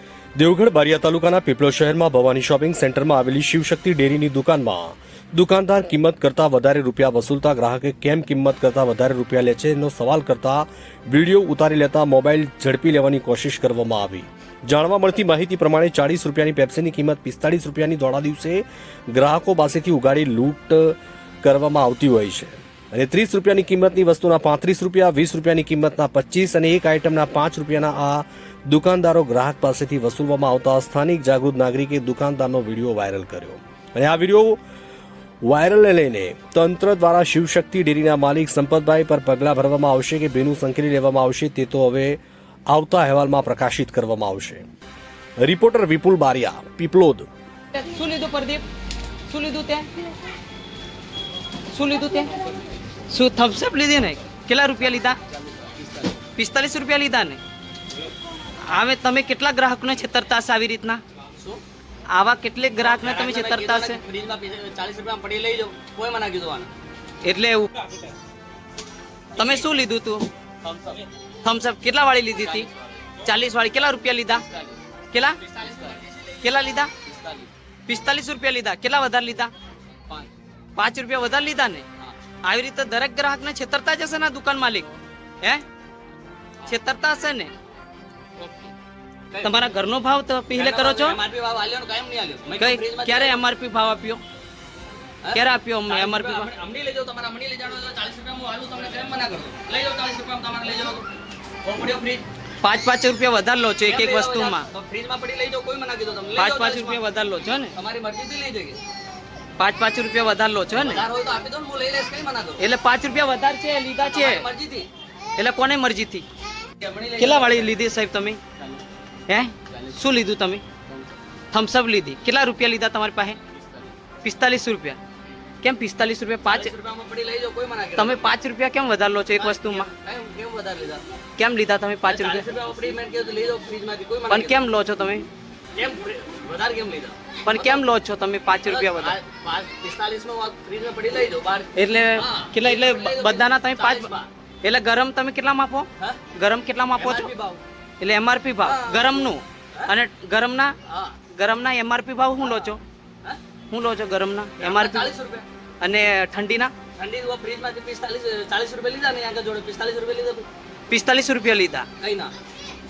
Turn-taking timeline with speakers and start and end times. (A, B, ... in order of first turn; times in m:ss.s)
0:00.4-0:34.6 A
0:35.4-0:44.6 A
0:45.4-0:47.3 A
0:47.7-0:48.6 B
0:49.3-0:49.9 B
0:51.7-0:52.3 B
0:53.1-0:55.2 B
0:56.4-0:57.4 B
0:58.6-1:01.0 B
1:01.3-1:01.6 C
1:02.1-1:04.0 B
1:02.8-1:06.7 C
1:07.2-1:07.7 B
1:09.4-1:10.3 B
1:10.6-1:11.0 C
1:11.4-1:12.7 B
1:12.4-1:12.8 C
1:13.2-1:14.4 B
1:14.5-1:14.7 C
1:15.1-1:15.4 B
1:15.4-1:16.2 C
1:16.4-1:16.9 B
1:17.0-1:17.5 C
1:17.9-1:19.5 B
1:20.8-1:21.8 B
1:22.4-1:24.9 B
1:26.6-1:27.5 B
1:28.4-1:28.7 B
1:29.3-1:29.7 C
1:29.4-1:31.2 B
1:30.5-1:33.4 C
1:32.6-1:34.2 B
1:35.2-1:41.0 C
1:35.3-1:36.5 B
1:41.6-1:42.2 C
1:42.6-1:44.6 B
1:43.8-1:47.0 C
1:46.4-1:47.7 B
1:47.7-1:48.8 C
1:49.6-1:51.1 B
1:50.7-1:52.6 C
1:52.6-1:54.4 B
1:54.0-1:54.9 C
1:55.4-1:56.2 B
1:56.8-1:57.8 C
1:57.2-1:58.4 B
1:59.3-2:00.6 B
1:59.6-2:00.0 C
2:01.5-2:03.4 B
2:03.6-2:03.9 C
2:04.2-2:05.0 B
2:05.6-2:06.7 B
2:06.4-2:08.3 C
2:08.0-2:09.9 B
2:09.3-2:11.0 C
2:11.4-2:12.4 B
2:12.0-2:14.6 C
2:14.3-2:15.3 B
2:15.7-2:17.8 C
2:17.4-2:19.2 B
2:18.6-2:24.3 C
2:21.8-2:24.1 B
2:24.6-2:27.3 B
2:26.0-2:26.2 C
2:26.9-2:27.6 C
2:28.0-2:30.7 B
2:28.6-2:29.9 C
2:30.8-2:31.2 C
2:31.3-2:32.8 B
2:32.4-2:33.4 C
2:33.7-2:35.1 B
2:34.6-2:35.4 C
2:35.8-2:36.7 B
2:37.0-2:40.5 C
2:40.9-2:41.9 B
2:42.0-2:42.3 C